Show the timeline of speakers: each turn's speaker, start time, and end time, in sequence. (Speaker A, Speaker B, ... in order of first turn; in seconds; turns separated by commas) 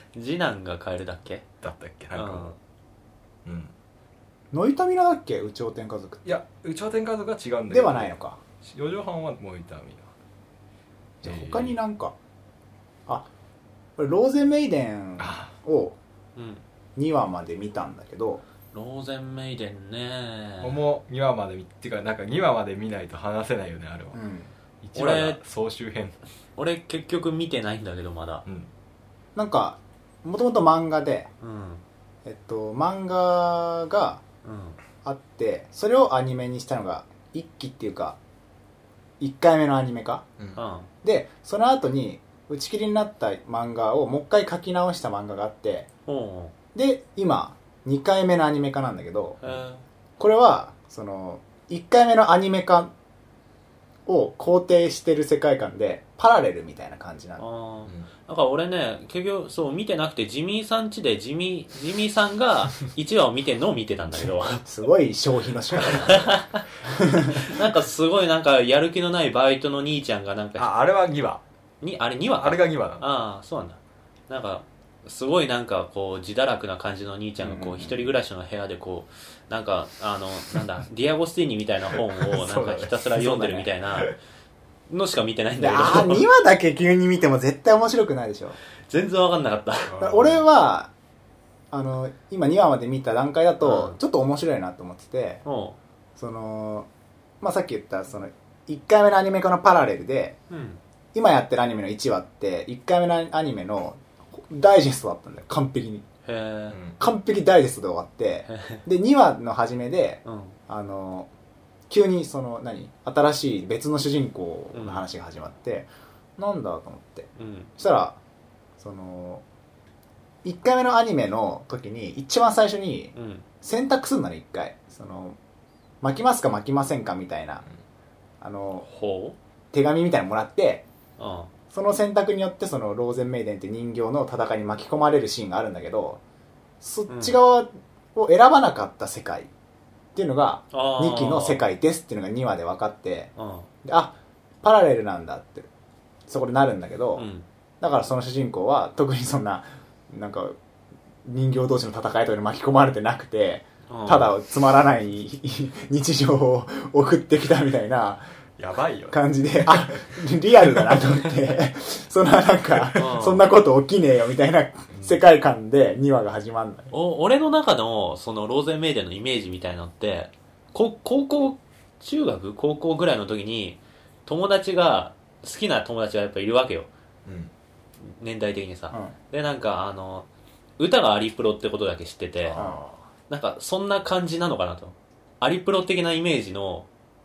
Speaker A: 0.1-1.4, Speaker B: 1.6-2.5, Speaker A: 2.1-2.6, Speaker B: 3.4-3.7, Speaker C: 4.5-6.3, Speaker B: 6.2-10.1, Speaker C: 7.7-8.4, Speaker B: 11.2-11.8, Speaker C: 11.2-12.1, Speaker C: 14.0-16.0, Speaker B: 15.2-15.5, Speaker A: 16.4-16.6, Speaker C: 16.9-18.4, Speaker A: 18.7-20.8, Speaker B: 20.6-24.2, Speaker C: 24.1-24.5, Speaker B: 24.8-26.2, Speaker A: 24.9-25.4, Speaker A: 26.6-28.4, Speaker C: 29.3-31.3, Speaker A: 31.4-31.8, Speaker C: 32.2-34.2, Speaker A: 34.4-34.8, Speaker C: 35.0-38.2, Speaker C: 39.2-40.2, Speaker A: 40.5-40.9, Speaker C: 41.0-45.9, Speaker A: 46.0-46.5, Speaker C: 46.7-49.4, Speaker A: 49.4-49.8, Speaker C: 50.2-52.9, Speaker C: 54.1-57.4, Speaker A: 57.4-64.6, Speaker C: 64.6-66.3, Speaker A: 65.8-66.6, Speaker C: 66.8-67.5, Speaker A: 67.3-70.7, Speaker B: 70.6-71.4, Speaker A: 71.8-84.1, Speaker B: 72.4-73.0, Speaker C: 77.4-78.0, Speaker B: 82.2-83.2, Speaker C: 83.2-83.7, Speaker A: 84.9-86.2, Speaker C: 85.6-88.6, Speaker A: 88.9-90.0, Speaker B: 89.9-90.4, Speaker C: 90.0-90.9, Speaker C: 91.7-95.4, Speaker A: 93.6-94.0, Speaker A: 95.4-95.8, Speaker C: 96.2-96.9, Speaker C: 97.4-100.4, Speaker A: 100.5-100.8, Speaker C: 101.1-106.0, Speaker A: 106.2-106.8, Speaker B: 106.7-107.0, Speaker C: 107.0-111.3, Speaker A: 108.5-108.8, Speaker A: 110.2-110.6, Speaker C: 111.9-118.2, Speaker A: 114.7-115.0, Speaker A: 117.4-117.7, Speaker C: 118.8-119.4, Speaker C: 120.4-125.4, Speaker A: 123.1-123.4, Speaker C: 126.0-127.6, Speaker C: 128.4-128.8, Speaker A: 128.8-129.3, Speaker C: 129.7-130.9, Speaker A: 131.2-131.5, Speaker C: 131.7-136.2, Speaker C: 136.8-139.5, Speaker A: 137.1-137.4, Speaker C: 140.1-143.3, Speaker A: 140.7-141.6, Speaker A: 143.4-143.7, Speaker C: 143.8-145.7, Speaker C: 146.3-147.3, Speaker A: 147.2-147.4, Speaker C: 147.8-150.6, Speaker C: 151.2-158.2, Speaker A: 153.9-154.3, Speaker B: 158.6-160.0, Speaker C: 159.1-166.9, Speaker A: 162.9-163.5, Speaker B: 164.9-165.2, Speaker A: 166.9-176.9, Speaker B: 177.2-177.5, Speaker A: 178.0-180.3, Speaker A: 180.8-182.6, Speaker B: 182.4-183.0, Speaker C: 182.6-182.8, Speaker A: 183.3-186.9